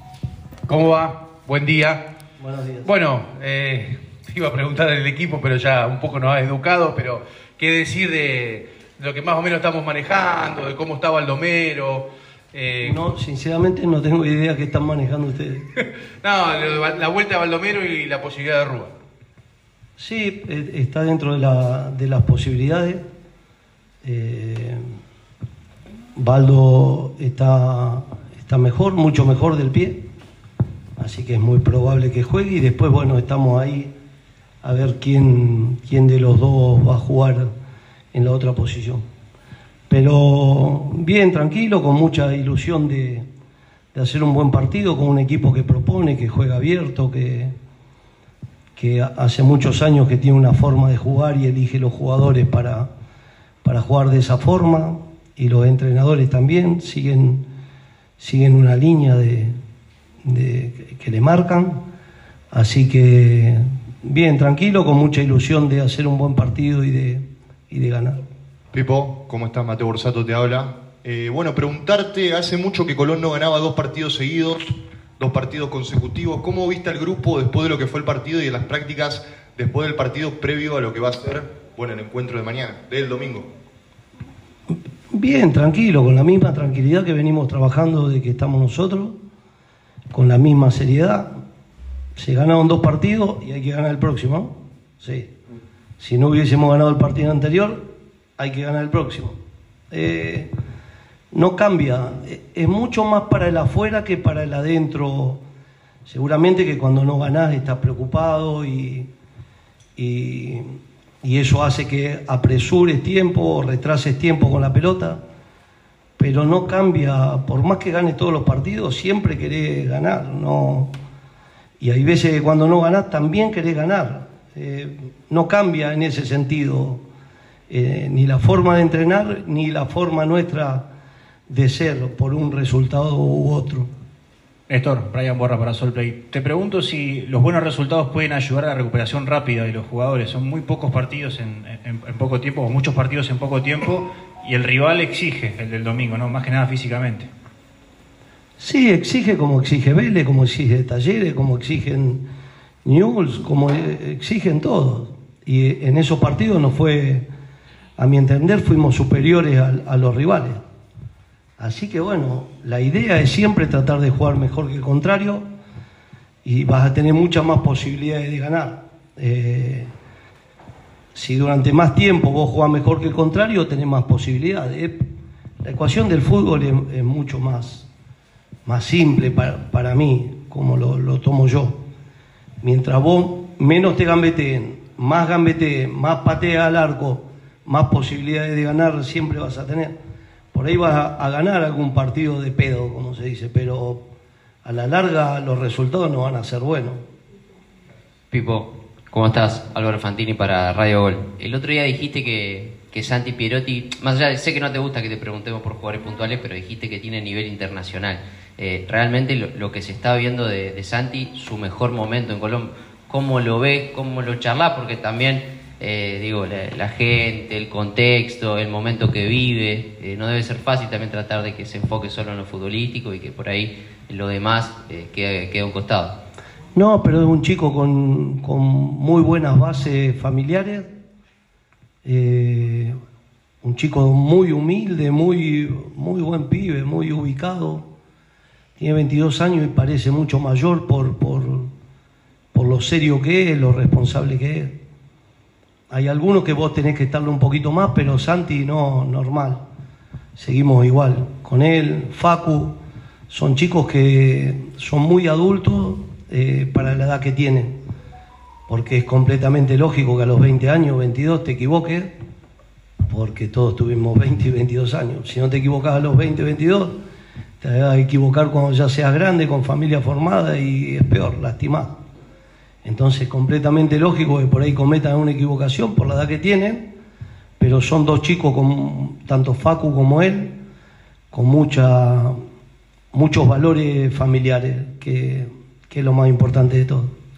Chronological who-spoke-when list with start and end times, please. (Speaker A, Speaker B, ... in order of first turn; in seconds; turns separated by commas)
Speaker A: 0.7-2.0, Speaker B: 2.4-2.9, Speaker A: 2.9-13.0, Speaker B: 12.8-15.7, Speaker A: 16.2-18.9, Speaker B: 20.0-23.0, Speaker B: 24.0-24.9, Speaker B: 26.2-30.0, Speaker B: 31.0-33.9, Speaker B: 34.6-37.5, Speaker B: 38.1-39.0, Speaker B: 39.9-43.3, Speaker B: 43.9-47.5, Speaker B: 48.8-52.9, Speaker B: 53.6-57.4, Speaker B: 58.2-59.5, Speaker B: 60.2-61.8, Speaker B: 62.5-68.2, Speaker C: 68.7-83.5, Speaker B: 84.7-89.2, Speaker B: 90.1-91.3, Speaker B: 92.2-95.3, Speaker B: 96.0-99.4, Speaker B: 99.9-100.5, Speaker B: 101.3-105.4, Speaker B: 106.1-109.1, Speaker B: 110.0-115.2, Speaker B: 116.2-120.9, Speaker B: 121.8-127.0, Speaker B: 127.7-130.9, Speaker B: 131.5-133.9, Speaker D: 134.7-147.3, Speaker B: 148.6-152.2, Speaker B: 152.8-157.3, Speaker B: 158.0-160.6, Speaker B: 161.6-165.5, Speaker B: 166.4-169.9, Speaker B: 171.2-175.0, Speaker B: 175.6-177.9, Speaker B: 178.7-181.8, Speaker B: 182.6-189.9, Speaker B: 190.5-194.0, Speaker B: 194.6-197.0, Speaker E: 198.3-226.2, Speaker B: 226.8-230.9, Speaker B: 232.1-233.0, Speaker B: 233.6-237.9, Speaker B: 238.8-241.7, Speaker B: 242.5-244.8, Speaker B: 245.9-249.6, Speaker B: 250.4-252.8, Speaker B: 253.3-257.8, Speaker B: 258.7-262.1, Speaker B: 263.1-267.0, Speaker B: 267.6-271.9, Speaker B: 272.9-276.9, Speaker B: 277.6-280.5, Speaker B: 281.3-282.4, Speaker B: 283.1-287.1